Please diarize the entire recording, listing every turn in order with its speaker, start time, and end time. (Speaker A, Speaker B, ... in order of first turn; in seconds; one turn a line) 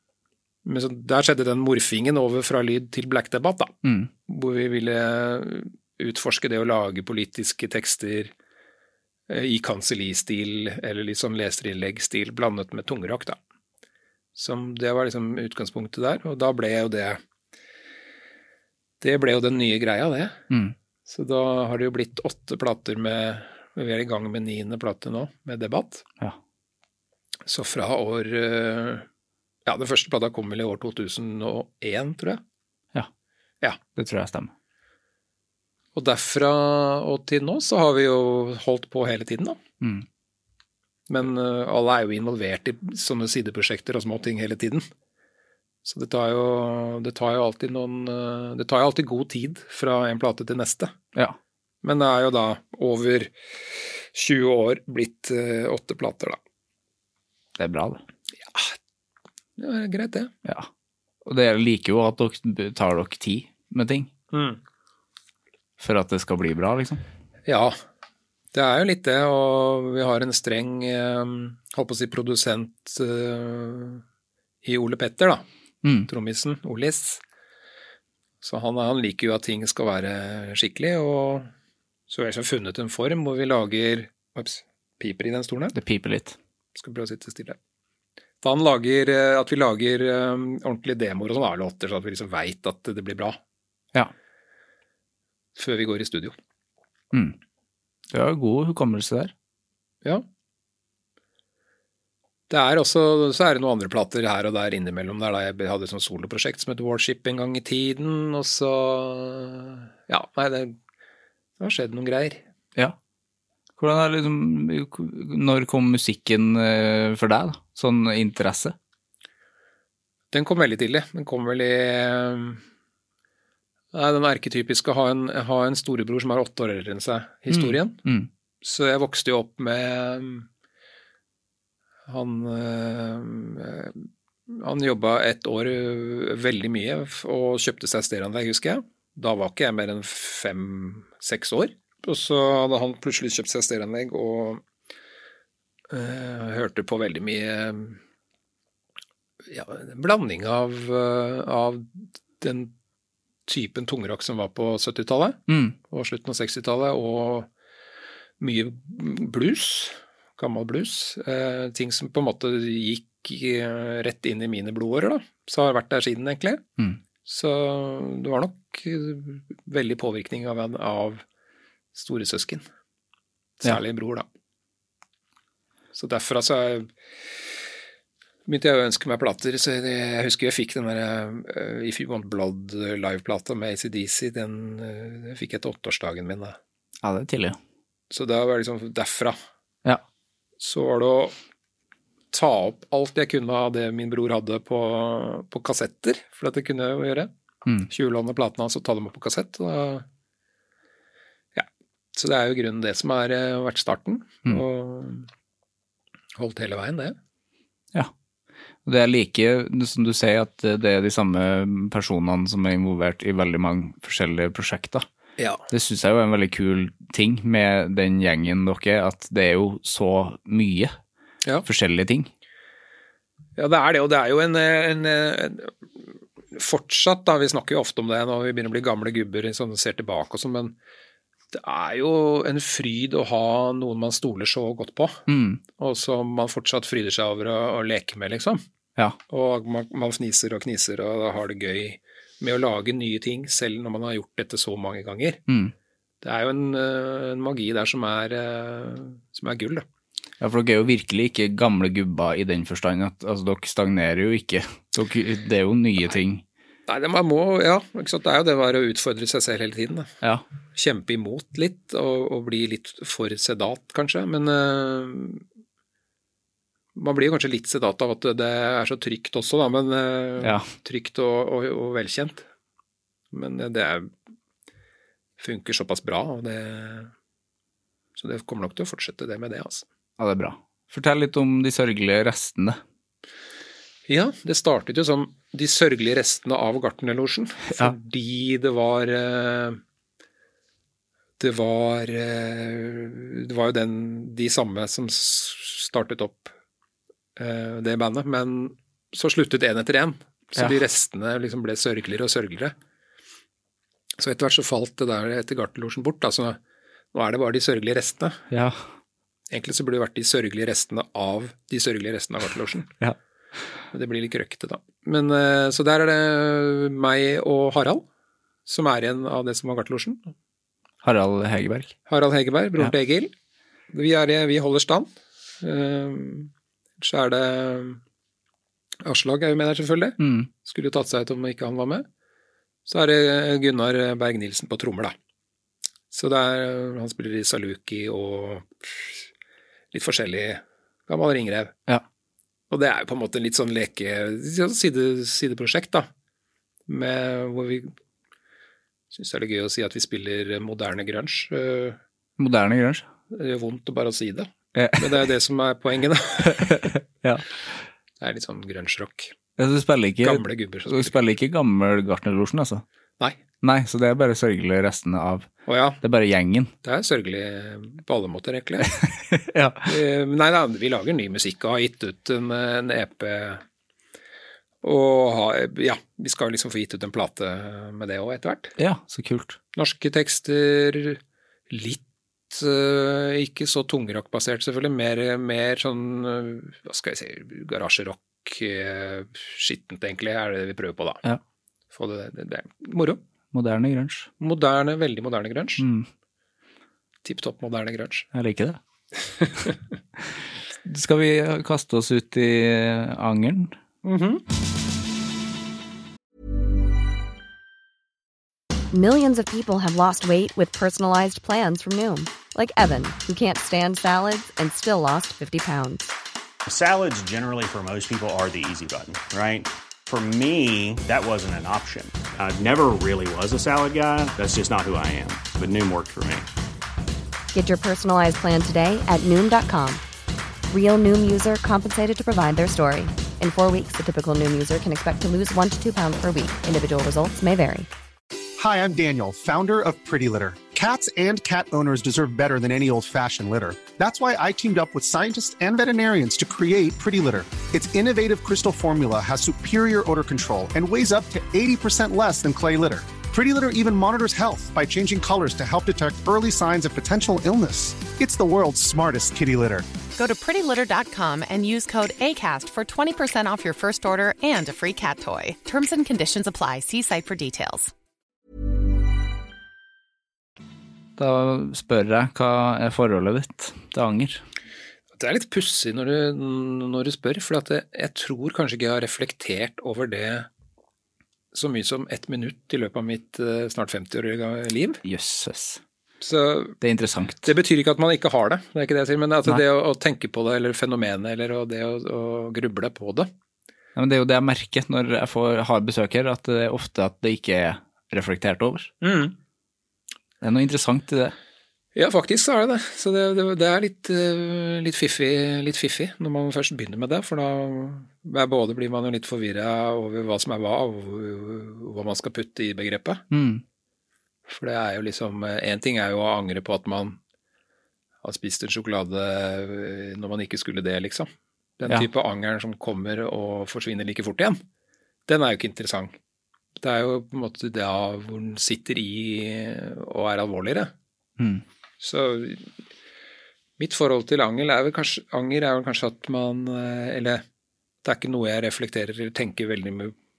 Speaker A: 0.7-3.7
Speaker A: 4.3-8.3
Speaker A: 9.3-13.4
Speaker A: 14.4-17.2
Speaker A: 19.0-20.4
Speaker A: 21.1-26.1
Speaker A: 27.5-29.1
Speaker A: 29.7-32.4
Speaker B: 34.0-34.5
Speaker A: 36.0-39.6
Speaker B: 39.8-40.1
Speaker A: 41.1-44.8
Speaker A: 45.9-50.9
Speaker A: 51.8-53.3
Speaker A: 54.1-56.4
Speaker B: 57.6-58.0
Speaker A: 58.4-58.8
Speaker A: 59.6-60.3
Speaker B: 61.2-64.1
Speaker A: 64.3-64.6
Speaker B: 65.8-67.0
Speaker A: 67.5-67.8
Speaker A: 68.5-74.0
Speaker A: 74.6-75.4
Speaker B: 75.8-76.1
Speaker A: 76.1-77.2
Speaker A: 78.4-81.5
Speaker A: 82.1-85.8
Speaker B: 85.7-86.4
Speaker A: 86.8-87.6
Speaker A: 88.4-93.4
Speaker A: 95.6-96.3
Speaker B: 98.1-99.3
Speaker A: 102.5-110.8
Speaker A: 111.6-112.4
Speaker B: 113.8-118.8
Speaker A: 120.3-122.6
Speaker A: 123.9-128.0
Speaker B: 127.5-128.3
Speaker A: 128.6-130.5
Speaker A: 132.1-144.6
Speaker A: 145.9-148.0
Speaker A: 149.5-152.7
Speaker A: 153.5-157.5
Speaker B: 155.5-155.8
Speaker A: 158.4-166.6
Speaker A: 167.3-171.2
Speaker A: 171.9-172.7
Speaker A: 173.6-174.3
Speaker A: 175.9-176.9
Speaker A: 178.5-186.6
Speaker B: 187.0-187.6
Speaker A: 188.1-189.4
Speaker A: 190.6-191.3
Speaker A: 192.3-197.3
Speaker A: 197.9-200.1
Speaker A: 201.6-205.3
Speaker A: 206.4-207.2
Speaker B: 208.8-215.1
Speaker A: 215.4-215.7
Speaker B: 215.7-220.9
Speaker B: 221.7-222.3
Speaker A: 223.6-225.7
Speaker A: 226.5-230.8
Speaker A: 231.5-235.2
Speaker B: 235.3-235.6
Speaker A: 235.8-238.6
Speaker A: 239.3-245.4
Speaker B: 245.5-245.7
Speaker A: 246.2-249.8
Speaker B: 250.4-256.4
Speaker A: 256.9-260.1
Speaker A: 260.8-265.4
Speaker A: 266.9-272.4
Speaker A: 273.3-274.1
Speaker A: 275.4-277.1
Speaker A: 278.2-279.9
Speaker B: 280.2-282.8
Speaker A: 284.1-289.8
Speaker A: 291.4-296.5
Speaker A: 297.4-302.7
Speaker A: 304.2-306.6
Speaker A: 307.1-308.4
Speaker B: 308.5-308.8
Speaker A: 309.5-312.9
Speaker A: 313.9-318.1
Speaker A: 318.7-320.3
Speaker B: 321.0-321.9
Speaker A: 322.1-323.3
Speaker A: 323.9-325.1
Speaker A: 325.6-328.0
Speaker A: 329.0-332.1
Speaker B: 330.2-330.5
Speaker A: 332.9-335.1
Speaker A: 336.1-339.3
Speaker A: 339.9-341.8
Speaker A: 342.7-346.1
Speaker A: 346.9-347.9
Speaker A: 349.1-352.0
Speaker B: 352.4-353.1
Speaker A: 353.3-356.9
Speaker B: 354.8-355.2
Speaker B: 356.4-357.5
Speaker A: 358.2-359.3
Speaker B: 359.6-362.8
Speaker A: 360.2-361.2
Speaker B: 363.6-365.5
Speaker A: 365.7-366.0
Speaker B: 366.0-366.7
Speaker A: 366.8-369.0
Speaker B: 369.3-369.9
Speaker A: 369.8-373.6
Speaker A: 374.8-378.7
Speaker B: 378.8-379.6
Speaker A: 379.8-391.2
Speaker A: 391.9-393.2
Speaker B: 393.5-394.3
Speaker A: 394.4-395.8
Speaker B: 395.8-396.1
Speaker A: 397.2-398.3
Speaker B: 398.3-398.8
Speaker B: 400.9-403.8
Speaker A: 404.0-404.4
Speaker C: 408.9-416.1
Speaker D: 416.7-426.5
Speaker C: 427.5-430.0
Speaker C: 430.7-437.9
Speaker E: 438.6-459.9
Speaker F: 460.2-467.9
Speaker B: 471.2-474.4
Speaker A: 475.2-480.5
Speaker A: 481.5-485.0
Speaker B: 485.0-485.8
Speaker A: 486.2-486.8
Speaker B: 486.8-487.5
Speaker A: 487.4-493.3
Speaker B: 494.0-498.9
Speaker A: 499.0-499.4
Speaker B: 500.4-501.4
Speaker A: 501.9-513.2
Speaker B: 513.3-513.6
Speaker A: 514.5-517.2
Speaker A: 518.2-524.6
Speaker A: 525.3-526.1
Speaker A: 526.8-530.9
Speaker B: 531.4-531.6
Speaker A: 532.0-532.7
Speaker A: 533.8-537.4
Speaker A: 538.0-540.1